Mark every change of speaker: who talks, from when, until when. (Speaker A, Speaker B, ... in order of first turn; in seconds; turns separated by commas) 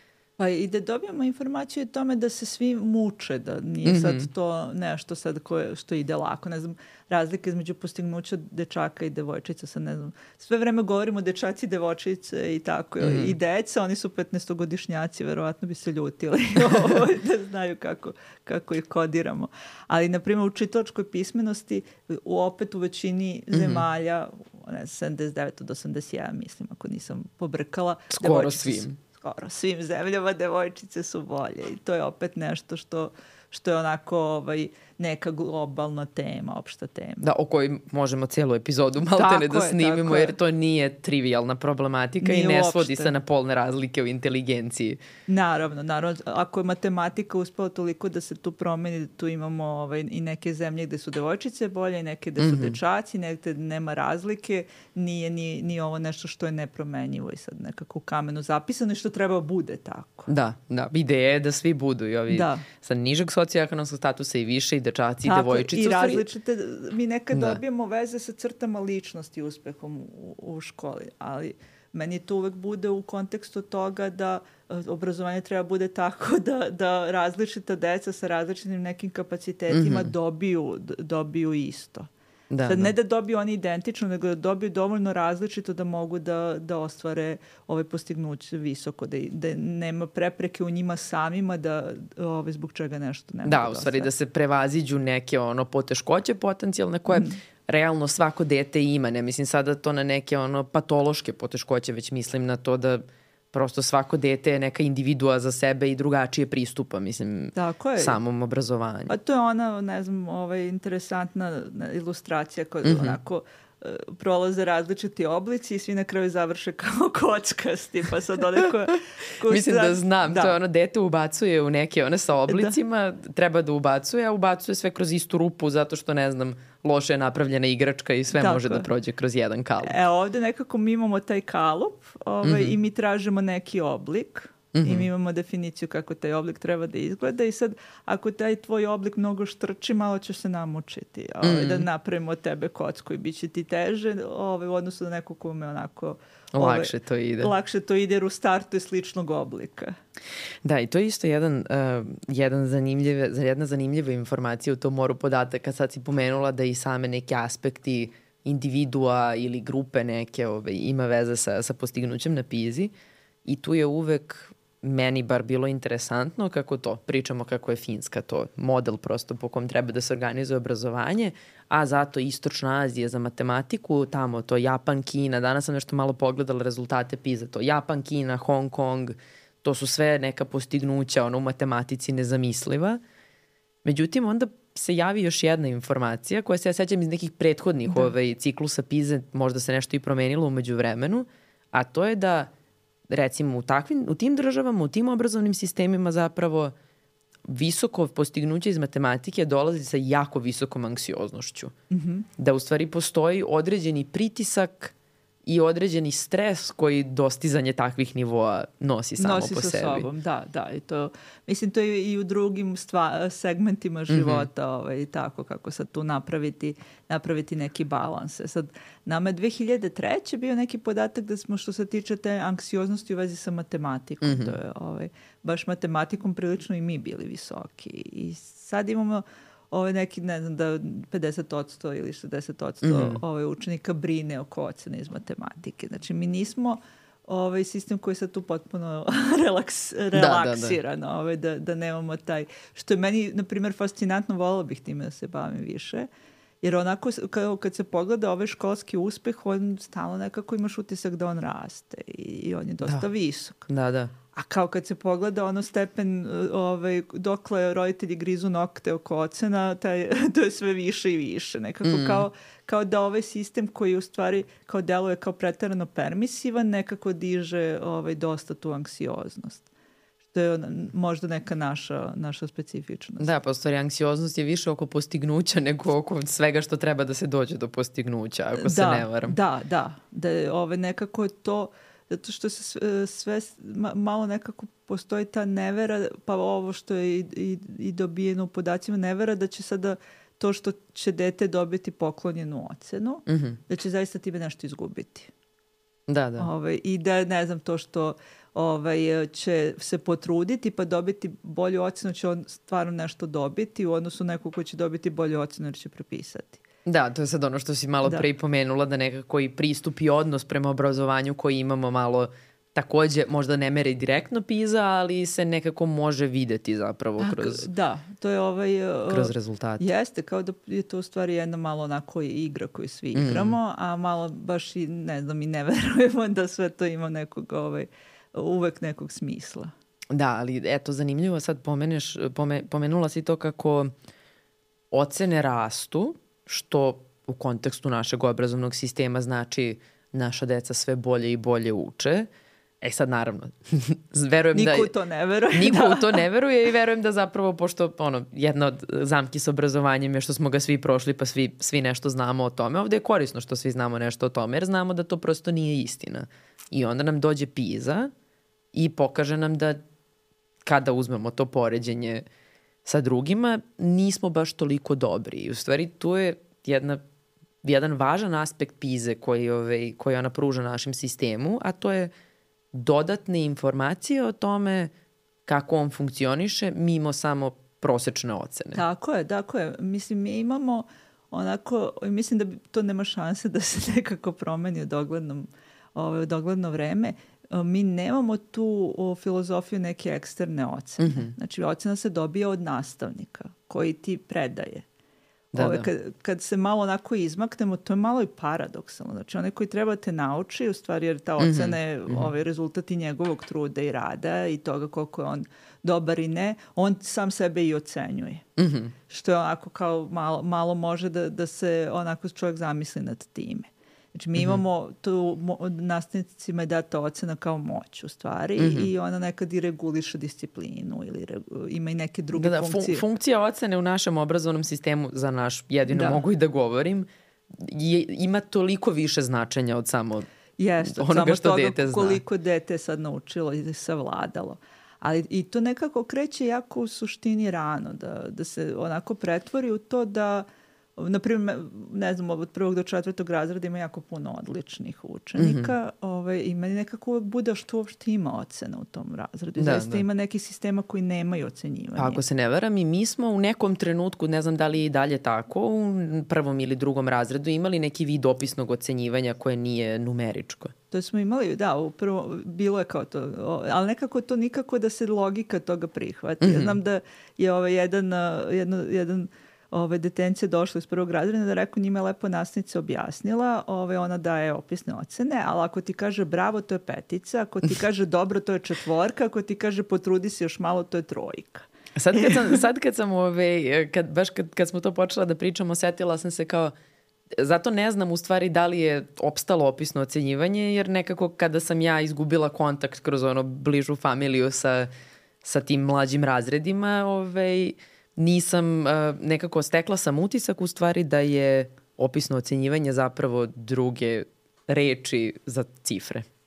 Speaker A: 0.4-37.2, Speaker B: 3.8-4.3, Speaker B: 13.0-13.3, Speaker B: 23.5-23.8, Speaker B: 28.1-29.0, Speaker B: 37.2-45.0, Speaker A: 39.1-40.3, Speaker A: 42.2-43.1, Speaker A: 45.3-60.3, Speaker B: 52.4-52.8, Speaker B: 60.3-66.2, Speaker A: 62.3-62.6, Speaker A: 65.2-82.1, Speaker B: 67.3-67.6, Speaker B: 79.7-80.1, Speaker B: 82.5-82.9, Speaker A: 82.6-94.1, Speaker B: 93.4-109.1, Speaker A: 97.1-97.4, Speaker A: 107.5-108.2, Speaker A: 109.1-120.5, Speaker B: 112.8-113.2, Speaker B: 119.5-130.0, Speaker A: 122.5-122.8, Speaker A: 128.4-128.9, Speaker A: 129.8-149.9, Speaker B: 132.4-132.7, Speaker B: 134.7-135.1, Speaker B: 141.4-141.9, Speaker B: 146.5-147.5, Speaker B: 150.6-162.9, Speaker B: 163.4-183.0, Speaker B: 183.8-192.5, Speaker B: 193.1-196.7, Speaker B: 197.5-201.7, Speaker A: 201.9-202.2, Speaker B: 202.4-204.9, Speaker B: 205.4-210.1, Speaker A: 209.2-246.1, Speaker B: 214.1-214.5, Speaker B: 224.2-224.6, Speaker B: 232.8-233.2, Speaker B: 240.1-240.8, Speaker A: 246.6-253.6, Speaker B: 253.7-254.1, Speaker A: 254.3-269.6, Speaker B: 261.8-262.2, Speaker A: 270.3-273.3, Speaker B: 273.2-279.4, Speaker A: 278.6-295.3, Speaker B: 293.3-293.6, Speaker B: 296.1-296.5, Speaker A: 296.4-306.6, Speaker B: 306.9-317.7, Speaker A: 317.2-329.7, Speaker B: 319.1-319.9, Speaker B: 323.1-323.6, Speaker B: 330.1-333.9, Speaker B: 334.9-342.3, Speaker B: 342.8-344.9, Speaker A: 344.5-346.2, Speaker B: 345.5-358.1, Speaker B: 358.7-359.8, Speaker B: 360.6-362.2, Speaker B: 362.8-367.0, Speaker B: 367.6-372.1, Speaker B: 372.7-374.9, Speaker B: 375.5-378.8, Speaker A: 378.7-394.8, Speaker B: 391.0-391.3, Speaker B: 395.5-395.9, Speaker A: 395.5-408.4, Speaker B: 401.4-402.3, Speaker B: 408.6-408.9, Speaker A: 409.1-423.0, Speaker B: 418.6-418.9, Speaker B: 422.4-430.3, Speaker A: 425.9-426.2, Speaker A: 430.6-440.4, Speaker B: 430.8-432.2, Speaker A: 441.0-452.2, Speaker B: 445.4-445.7, Speaker B: 449.6-450.1, Speaker B: 451.9-460.7, Speaker A: 460.9-482.6, Speaker B: 466.4-466.8, Speaker B: 481.9-486.7, Speaker B: 487.4-494.9, Speaker B: 495.4-506.2